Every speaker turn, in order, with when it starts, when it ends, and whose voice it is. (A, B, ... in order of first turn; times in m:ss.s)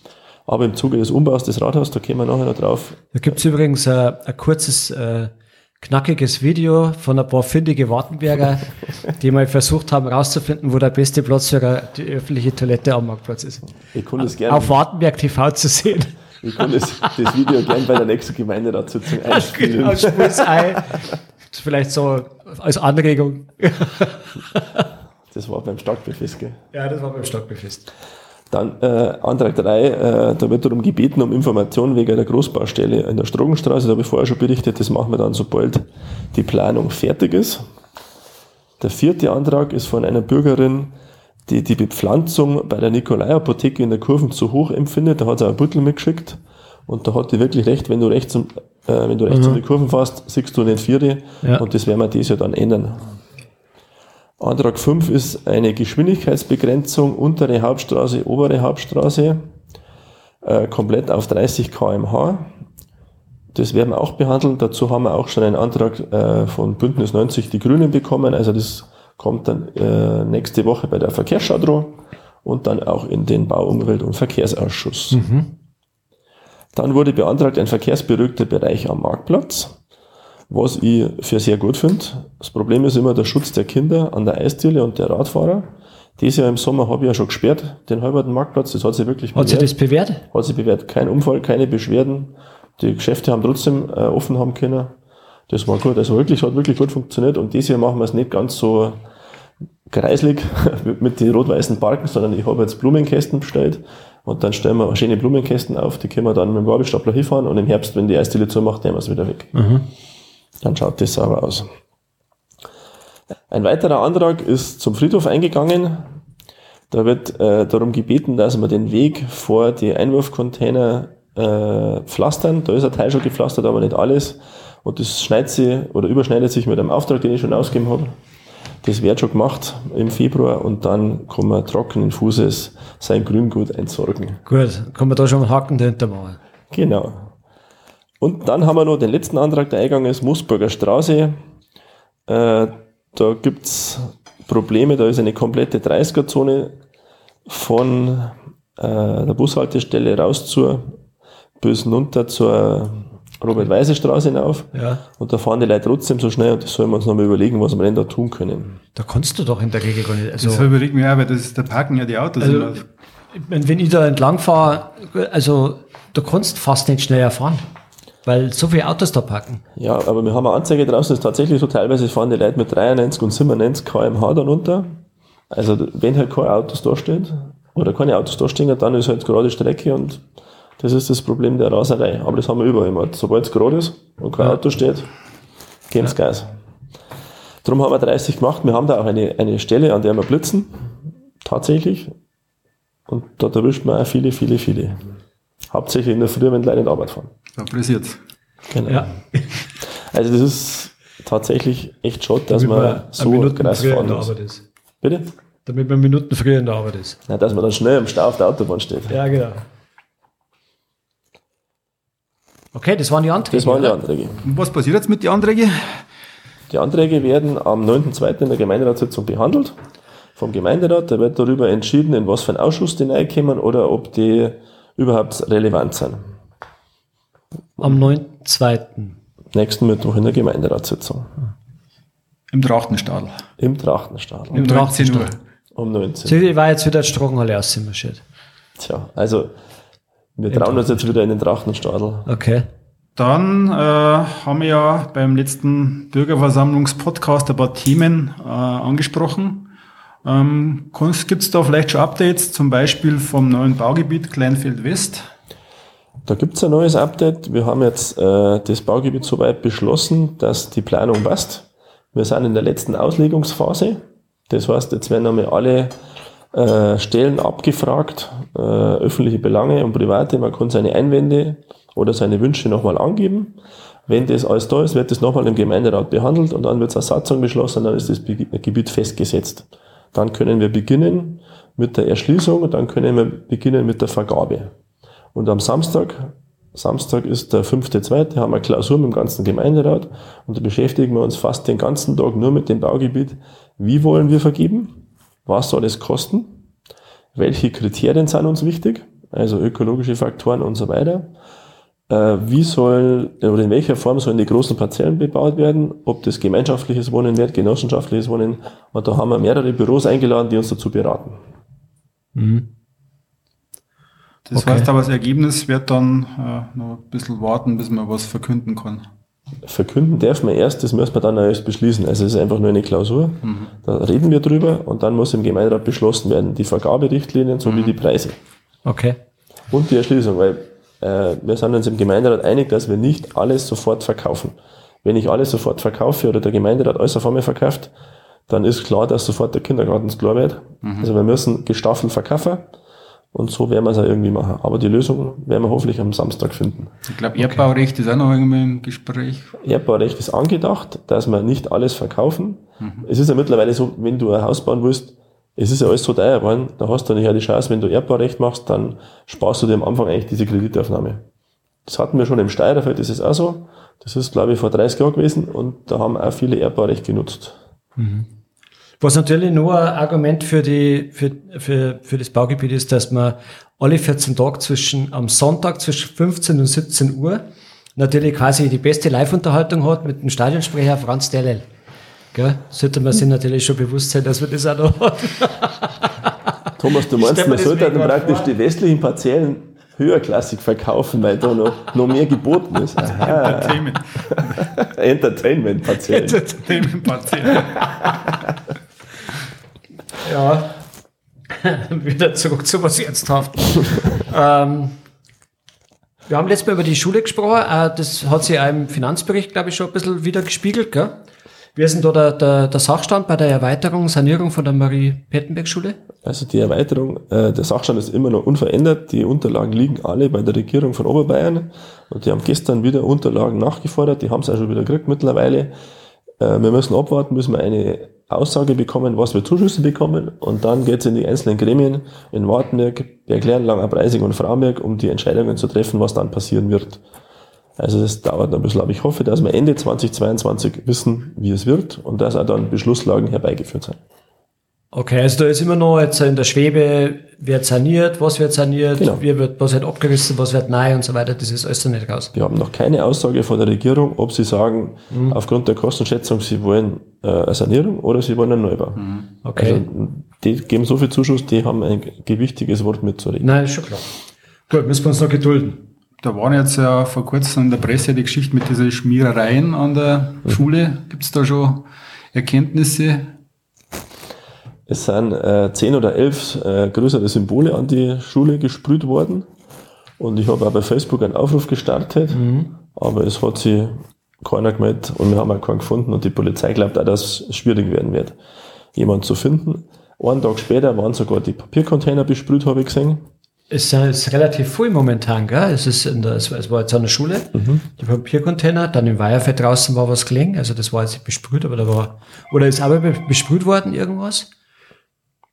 0:00.4-0:03.1 A
0:03.1-0:13.7 B
0:13.9-0:14.8 A
0:14.2-0:17.3 B
0:16.4-0:20.8 A
0:19.2-0:24.8 B
0:25.3-0:26.6 A
0:26.7-0:27.9 B
0:28.5-0:37.6 A
0:38.8-0:40.9 A
0:41.5-0:53.2 A
0:49.3-0:49.6 B
0:54.4-0:59.5 A
1:00.4-1:02.5 A
1:03.5-1:15.2 A
1:15.1-1:15.5 B
1:16.7-1:19.8 A
1:20.5-1:29.7 A
1:29.3-1:30.2 B
1:30.3-1:35.0 A
1:35.5-1:39.0 A
1:39.9-1:49.5 A
1:49.5-1:49.8 B
1:50.6-1:51.7 A
1:53.5-1:56.0 A
1:56.9-2:08.1 A
2:08.8-2:14.4 A
2:14.4-2:16.4 B
2:16.7-2:17.3 A
2:18.2-2:21.4 A
2:22.3-2:26.8 A
2:27.4-2:31.0 A
2:31.6-2:38.8 A
2:34.7-2:35.0 B
2:39.0-2:40.6 B
2:40.4-2:42.8 C
2:42.4-2:42.8 B
2:43.3-2:47.6 B
2:48.2-2:49.6 B
2:49.8-2:55.0 A
2:55.5-3:00.2 A
3:00.8-3:05.1 A
3:05.9-3:06.5 A
3:07.6-3:10.9 A
3:11.4-3:12.1 A
3:13.1-3:15.1 A
3:15.7-3:17.3 A
3:17.6-3:18.2 C
3:18.7-3:19.1 A
3:18.9-3:19.5 B
3:20.0-3:24.3 A
3:22.5-3:24.6 B
3:25.0-3:25.3 A
3:25.6-3:27.2 B
3:27.3-3:29.1 A
3:29.1-3:29.6 B
3:32.7-3:34.0 B
3:33.5-3:34.4 A
3:34.4-3:36.0 C
3:36.7-3:39.8 A
3:40.4-3:46.2 A
3:47.8-3:49.2 B
3:49.5-3:51.3 A
3:52.5-3:53.4 C
3:53.6-3:54.7 A
3:54.5-3:55.3 B
3:54.5-3:55.4 C
3:55.7-3:56.4 A
3:56.2-3:58.2 B
3:58.8-3:59.5 A
4:00.4-4:02.3 A
4:00.5-4:01.0 B
4:02.2-4:02.6 B
4:03.2-4:09.7 C
4:10.2-4:15.2 C
4:16.2-4:25.9 A
4:26.5-4:44.7 A
4:45.3-4:56.6 A
4:57.3-5:01.3 A
5:02.1-5:11.4 A
5:12.3-5:12.7 B
5:14.5-5:19.1 C
5:14.5-5:14.9 B
5:19.6-5:28.4 A
5:23.4-5:23.7 C
5:27.6-5:28.0 C
5:28.8-5:29.2 B
5:29.7-5:37.9 A
5:38.5-5:42.7 A
5:40.8-5:41.1 C
5:43.3-5:46.9 A
5:47.1-5:49.5 C
5:47.4-5:47.6 B
5:49.6-6:01.2 A
5:52.8-5:53.1 C
6:01.8-6:07.6 A
6:08.0-6:08.3 B
6:09.0-6:17.4 B
6:18.0-6:21.6 B
6:22.3-6:28.5 B
6:26.8-6:36.4 A
6:33.0-6:34.7 C
6:36.0-6:36.8 B
6:36.5-6:38.1 C
6:40.2-6:40.7 B
6:41.5-6:44.9 B
6:46.3-6:51.1 B
6:51.8-6:56.0 B
6:56.2-7:05.7 A
7:06.4-7:17.0 A
7:17.8-7:24.0 A
7:24.9-7:32.3 B
7:29.0-7:29.2 A
7:32.3-7:39.0 A
7:35.1-7:35.4 B
7:39.0-7:39.3 C
7:39.4-7:39.8 B
7:39.5-7:43.5 A
7:43.4-7:44.1 B
7:44.7-7:45.9 B
7:46.2-7:53.3 C
7:54.9-7:59.5 A
8:00.2-8:02.4 A
8:02.3-8:02.7 B
8:02.9-8:08.4 A
8:08.9-8:13.2 A
8:13.7-8:24.5 B
8:17.5-8:17.8 A